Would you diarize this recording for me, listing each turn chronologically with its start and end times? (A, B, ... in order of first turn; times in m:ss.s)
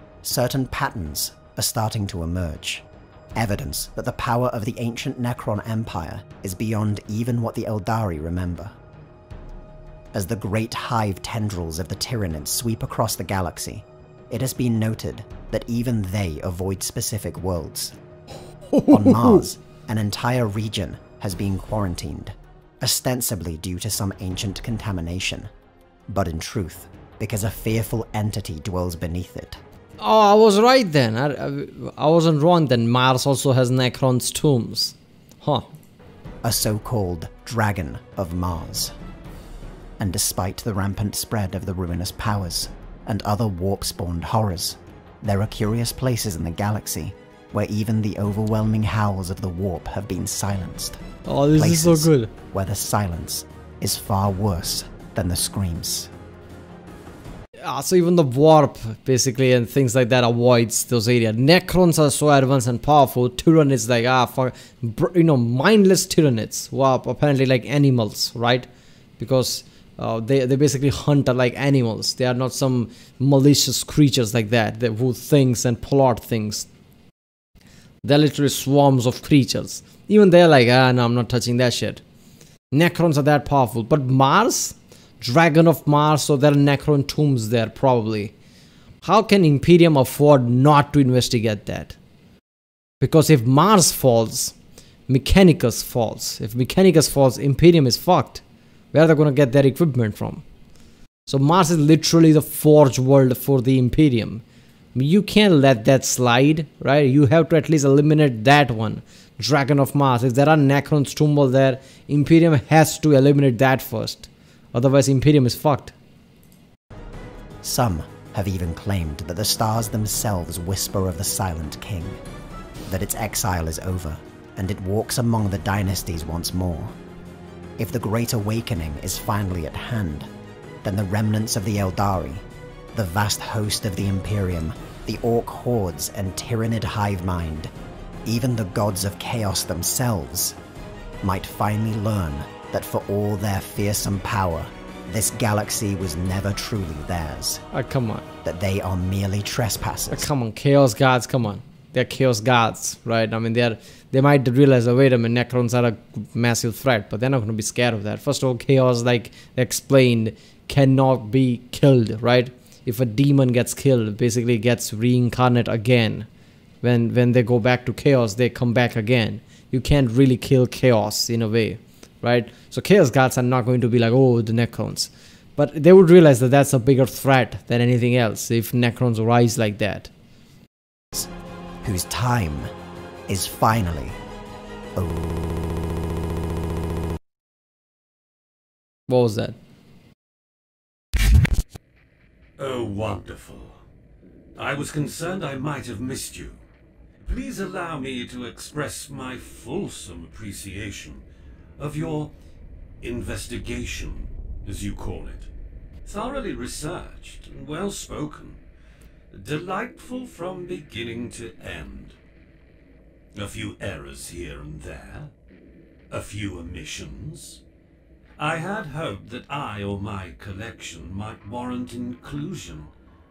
0:00.2-0:08.8 A
0:10.1-0:18.0 A
0:18.7-0:19.4 B
0:18.9-0:25.5 A
0:26.1-0:29.6 A
0:30.0-0:35.7 B
0:36.4-0:38.9 A
0:40.0-0:51.0 A
0:51.2-0:52.3 B
0:51.5-0:56.1 A
0:57.6-1:08.7 B
1:09.2-1:16.7 B
1:18.0-1:22.0 B
1:22.7-1:28.3 B
1:29.0-1:32.0 B
1:33.0-1:34.5 B
1:35.1-1:38.4 B
1:38.9-1:40.4 B
1:41.2-1:44.4 B
1:44.9-1:55.9 B
1:57.6-2:02.2 A
2:02.9-2:06.9 A
2:07.8-2:10.3 A
2:10.8-2:17.7 A
2:18.2-2:20.6 A
2:21.2-2:27.6 A
2:27.7-2:28.2 B
2:28.4-2:30.3 A
2:30.1-2:46.3 B
2:46.8-3:00.1 B
3:01.8-3:02.7 A
3:03.3-3:04.2 A
3:05.0-3:05.3 A
3:09.1-3:09.6 B
3:12.6-3:13.8 C
3:14.6-3:16.6 C
3:17.2-3:21.2 C
3:21.8-3:22.3 C
3:23.0-3:25.5 C
3:26.0-3:28.6 C
3:29.3-3:32.2 C
3:33.3-3:35.3 C
3:36.1-3:37.6 C
3:38.4-3:42.9 C